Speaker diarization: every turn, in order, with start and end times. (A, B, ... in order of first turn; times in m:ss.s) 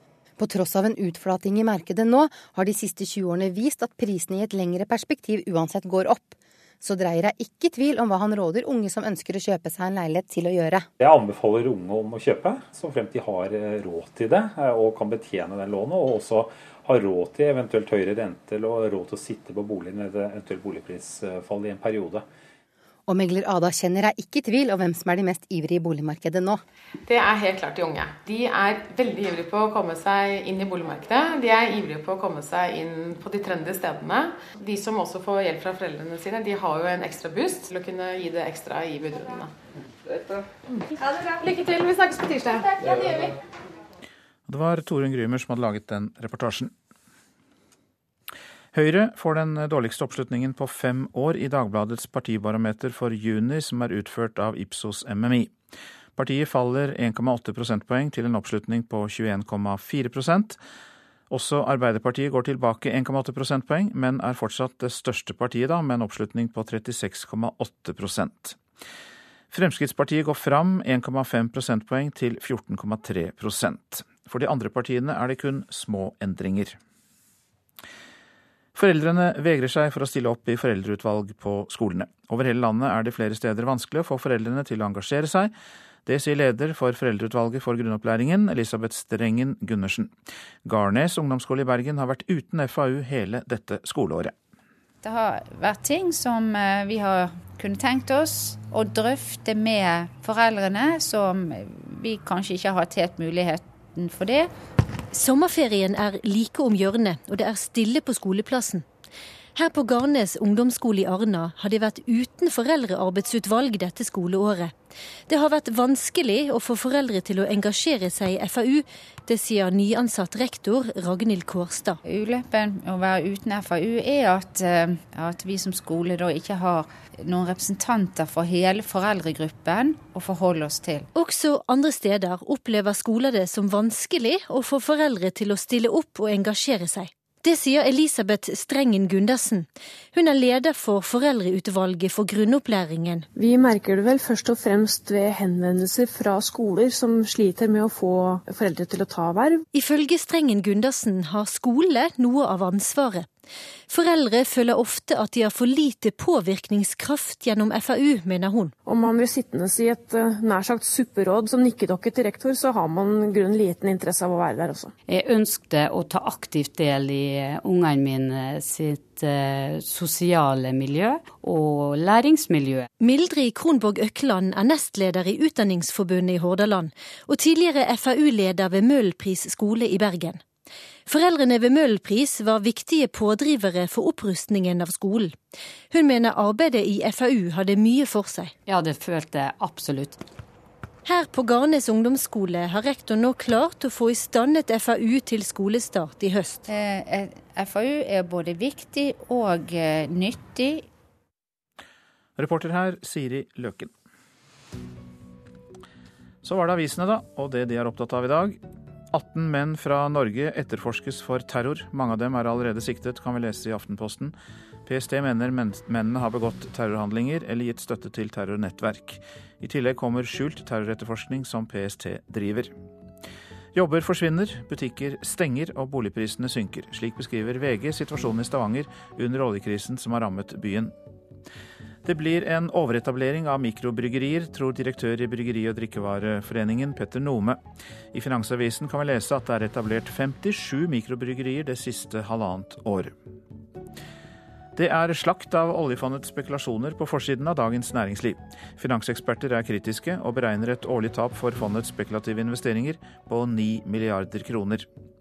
0:00.4-0:10.8 A
0:11.0-0:22.2 B
0:23.1-0:26.6 A
0:27.0-0:39.5 C
0:41.9-0:42.6 C
0:44.5-0:46.7 D
0:48.7-0:55.5 D
0:56.2-1:00.6 D
1:01.3-1:08.6 D
1:09.5-1:16.8 D
1:18.7-1:25.5 D
1:26.0-1:30.1 D
1:30.6-1:34.3 D
1:35.0-1:44.5 E
1:45.1-1:48.8 F
1:49.6-1:54.7 F
1:55.3-2:02.0 F
2:02.0-2:11.1 E
2:11.1-2:23.2 F
2:23.4-2:29.6 G
2:29.7-2:33.3 F
2:33.9-2:38.7 F
2:38.8-2:44.9 G
2:45.1-2:52.9 H
2:53.0-3:00.4 F
3:01.1-3:05.4 F
3:05.9-3:08.5 F
3:08.6-3:10.2 H
3:11.0-3:16.6 F
3:16.7-3:20.8 E
3:22.4-3:23.9 D
3:26.4-3:28.6 D
3:29.1-3:42.7 D
3:43.7-3:50.9 D
3:52.0-3:57.6 D
3:58.1-4:03.1 D
4:04.7-4:14.9 D